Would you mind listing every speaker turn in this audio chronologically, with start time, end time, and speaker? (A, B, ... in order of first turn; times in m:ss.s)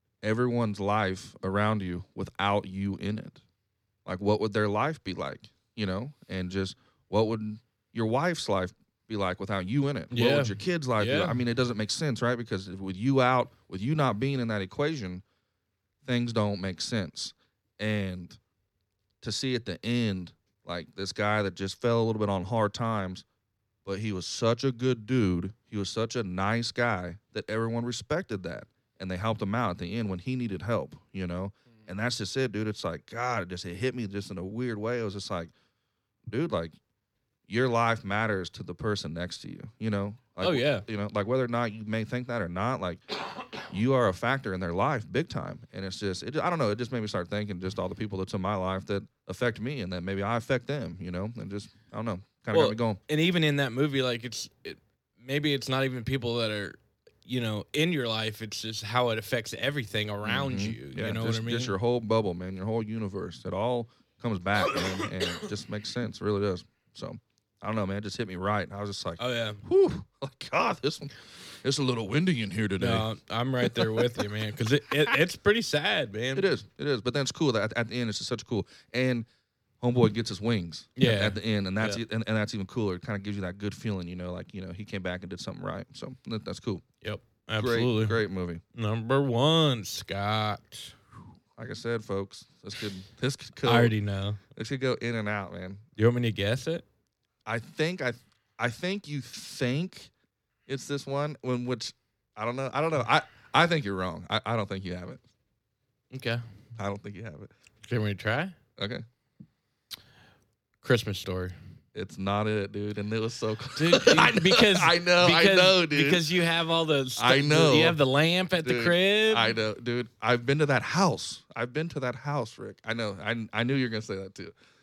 0:00.2-0:03.4 A
0:04.0-0:15.2 A
0:10.1-0:11.4 B
0:16.0-0:18.4 A
0:19.2-0:23.2 A
0:23.8-0:35.5 A
0:36.3-0:36.7 A
0:37.5-0:43.0 A
0:40.4-0:40.9 B
0:43.7-0:53.0 A
0:52.5-1:01.8 B
1:00.2-1:13.1 A
1:04.7-1:05.5 B
1:09.2-1:09.6 B
1:12.8-1:16.5 B
1:13.6-1:14.3 A
1:16.4-1:19.3 A
1:19.8-1:26.8 A
1:21.0-1:22.0 B
1:27.0-1:28.2 B
1:27.6-1:28.6 A
1:28.7-1:31.0 B
1:31.6-1:33.9 A
1:33.6-1:34.4 B
1:34.6-1:35.8 A
1:36.0-1:36.8 B
1:37.5-1:40.1 A
1:40.7-1:45.2 A
1:46.1-1:46.4 B
1:46.8-1:47.5 A
1:47.8-1:48.6 B
1:48.8-1:49.0 A
1:50.8-1:51.6 B
1:51.9-1:56.3 A
1:53.8-1:59.6 B
1:57.2-1:58.0 A
1:58.6-2:04.6 A